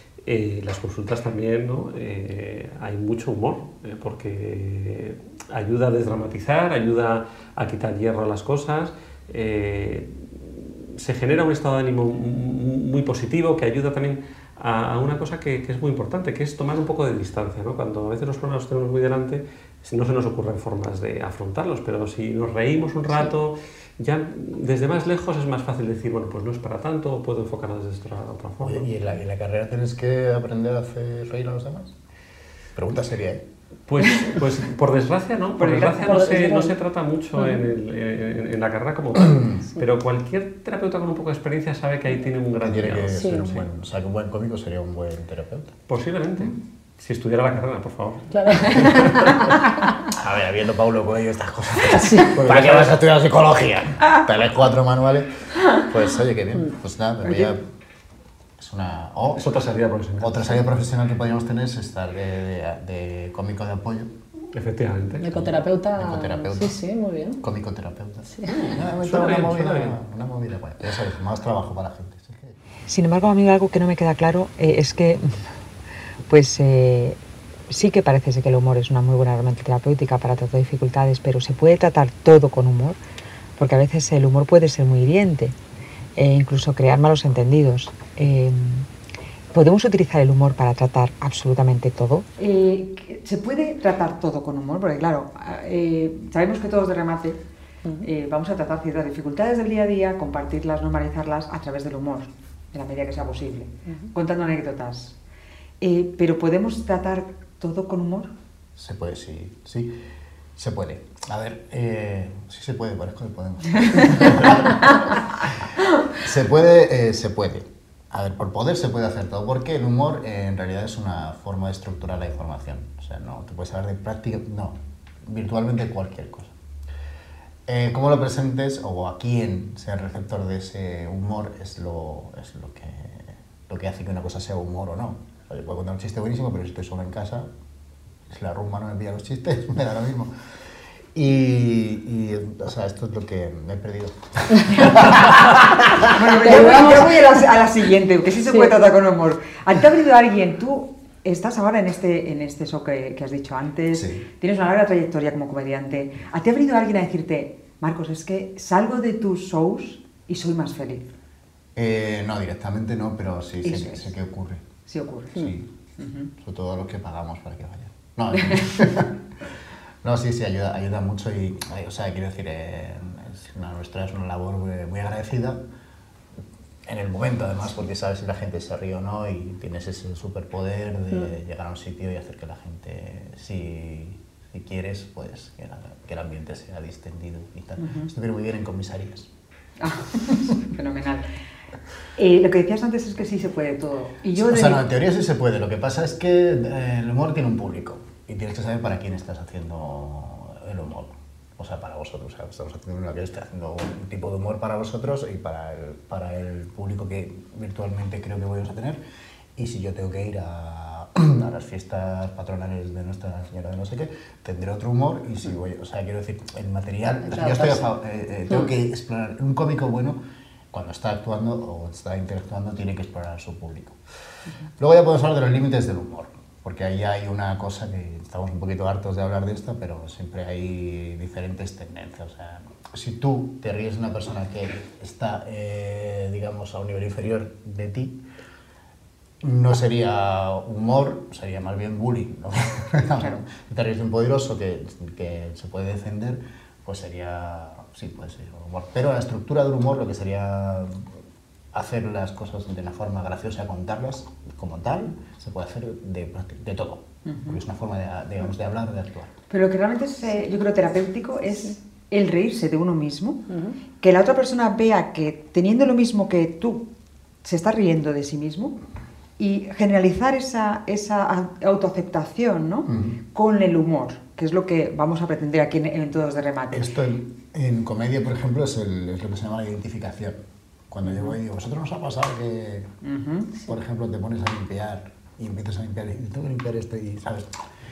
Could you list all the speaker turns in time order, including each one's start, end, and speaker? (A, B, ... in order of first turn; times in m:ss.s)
0:00.2-0:28.9 A
0:28.6-0:31.9 B
0:32.8-0:33.4 B
0:33.9-0:43.7 A
0:35.6-0:36.5 C
0:36.0-0:36.8 D
0:42.6-0:45.8 B
0:43.2-0:43.5 D
0:45.9-0:49.6 A
0:48.3-0:49.6 D
0:50.1-0:57.6 B
0:52.0-0:52.3 D
0:52.3-0:53.0 A
0:58.6-0:59.6 B
0:59.4-1:00.6 A
1:00.2-1:04.1 B
1:04.5-1:05.4 A
1:05.2-1:07.4 D
1:05.3-1:06.8 B
1:07.4-1:12.6 B
1:08.5-1:10.0 A
1:12.9-1:15.3 C
1:16.3-1:17.2 C
1:17.7-1:23.0 C
1:23.6-1:25.6 C
1:26.2-1:28.9 C
1:29.5-1:37.4 C
1:38.0-1:45.2 C
1:43.9-1:44.1 D
1:45.8-1:48.3 C
1:48.8-1:50.0 B
1:50.6-2:06.5 B
2:07.7-2:17.5 B
2:18.3-2:20.3 B
2:21.1-2:26.3 B
2:26.1-2:41.1 C
2:26.4-2:27.2 D
2:33.9-2:34.2 B
2:41.8-2:44.6 B
2:43.6-2:44.0 C
2:44.9-2:46.3 C
2:45.4-2:45.7 B
2:46.4-2:49.1 B
2:50.0-2:55.6 B
2:56.9-3:09.3 B
3:07.8-3:08.1 C
3:09.8-3:11.2 C
3:12.2-3:14.8 C
3:14.4-3:29.0 B
3:29.6-3:40.2 B
3:37.3-3:37.8 D
3:40.7-3:44.0 B
3:44.8-3:58.2 B
3:59.4-4:11.1 B
4:11.7-4:19.3 B
4:17.3-4:17.6 C
4:19.5-4:23.5 C
4:23.5-4:23.8 D
4:24.0-4:26.9 C
4:27.4-4:28.8 C
4:29.4-4:36.9 C
4:32.9-4:33.2 B
4:36.7-4:40.4 B
4:40.9-4:42.9 B
4:43.0-4:43.5 C
4:43.7-4:47.5 B